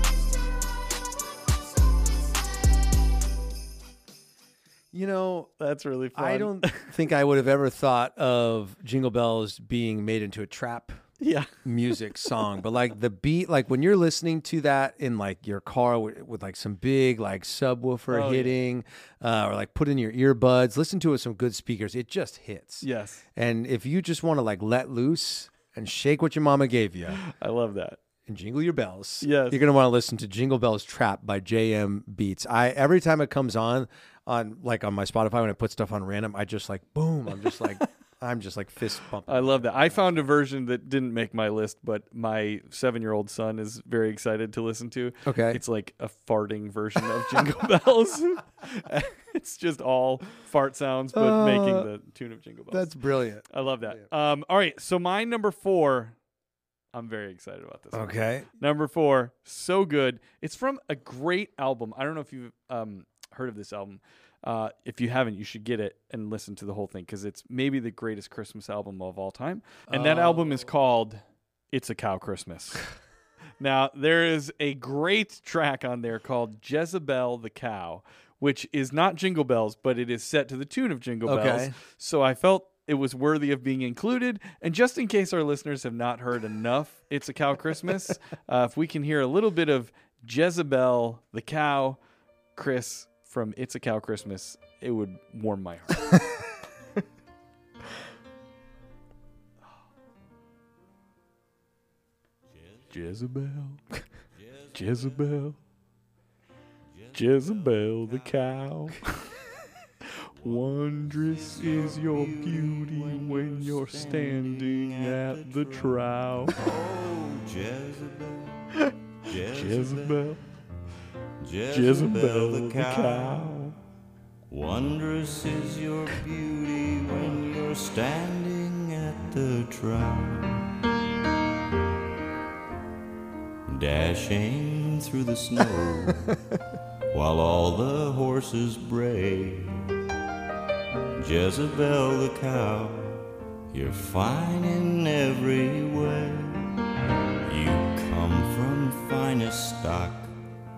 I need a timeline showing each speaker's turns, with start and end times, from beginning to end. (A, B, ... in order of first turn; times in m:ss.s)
0:04.9-0:05.5 A
0:05.6-0:06.9 B
0:06.1-0:11.0 A
0:11.2-0:11.5 B
0:11.6-0:27.2 A
0:18.1-0:18.6 B
0:22.8-0:23.2 B
0:27.1-0:28.0 B
0:28.2-0:40.3 A
0:29.2-0:29.6 B
0:39.3-0:52.9 B
0:45.2-0:45.6 A
0:51.1-0:51.9 A
0:52.7-0:53.4 A
0:53.5-0:56.2 B
0:56.9-1:12.8 B
0:57.9-0:58.5 A
1:09.9-1:10.7 A
1:13.6-1:32.0 B
1:21.2-1:21.8 A
1:32.6-1:36.0 B
1:42.6-1:42.9 C
1:42.9-1:43.8 B
1:44.3-1:45.0 C
1:44.7-1:45.6 B
1:46.9-1:48.3 C
1:47.1-1:49.2 B
1:50.1-1:56.6 B
1:50.8-1:58.6 C
1:59.3-2:00.3 C
1:59.3-2:00.4 B
2:01.4-2:03.5 C
2:01.6-2:03.8 B
2:04.5-2:10.7 C
2:13.7-2:16.2 C
2:17.1-2:19.9 C
2:21.2-2:26.7 C
2:27.4-2:30.3 C